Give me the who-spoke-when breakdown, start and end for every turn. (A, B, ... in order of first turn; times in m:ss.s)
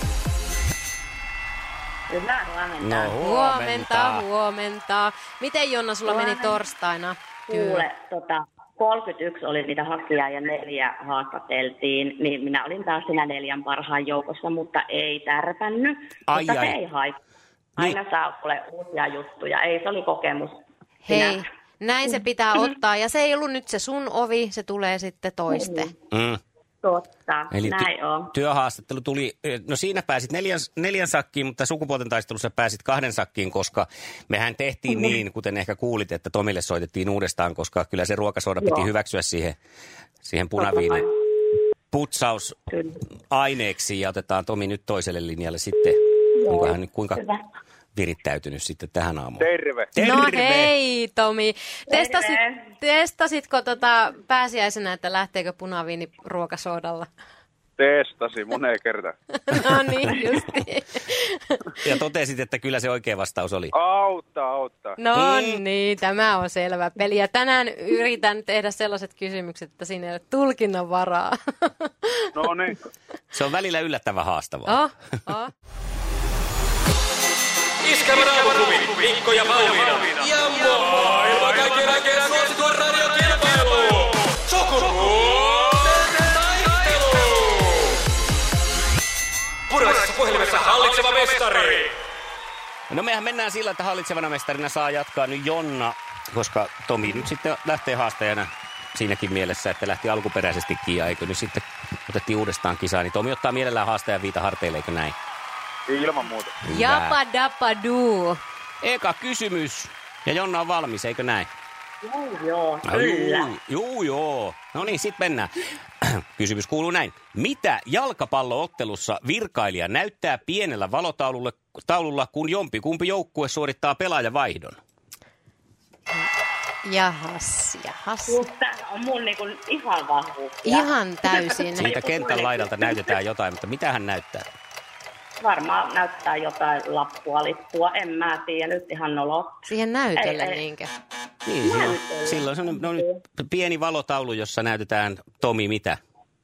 0:02.1-0:03.1 A
0:02.8-0:04.2 B
0:03.2-0:07.8 C
0:06.1-0:06.6 A
0:07.5-0:17.2 A
0:16.3-0:16.8 B
0:17.8-0:21.4 A
0:21.0-0:25.9 C
0:25.5-0:25.9 A
0:26.1-0:26.4 B
0:26.8-0:28.3 A
0:27.5-0:39.6 B
0:38.6-0:38.9 A
0:40.2-0:41.1 B
0:40.6-0:41.0 A
0:41.9-0:42.6 B
0:42.7-0:43.0 A
0:43.3-0:47.2 B
0:46.4-0:47.4 A
0:48.0-0:50.7 B
0:49.4-0:49.9 D
0:50.0-0:57.1 C
0:51.9-0:52.6 A
0:57.8-0:59.1 D
0:59.5-1:01.8 C
1:01.8-1:03.7 B
1:03.8-1:04.9 D
1:05.0-1:12.3 C
1:05.1-1:05.6 B
1:12.4-1:12.7 D
1:13.3-1:14.8 B
1:14.7-1:15.5 C
1:17.8-1:27.6 E
1:29.7-1:31.9 E
1:32.9-1:45.2 B
1:45.9-1:46.5 D
1:46.7-1:47.2 B
1:46.7-1:48.4 C
1:48.8-1:51.5 B
1:52.0-1:53.5 A
1:52.8-1:55.5 B
1:56.0-2:04.8 B
2:06.8-2:08.4 C
2:08.3-2:13.1 A
2:10.6-2:11.9 C
2:11.8-2:14.5 B
2:15.4-2:19.6 A
2:19.7-2:20.9 C
2:20.2-2:20.6 A
2:21.5-2:26.0 B
2:21.6-2:23.2 A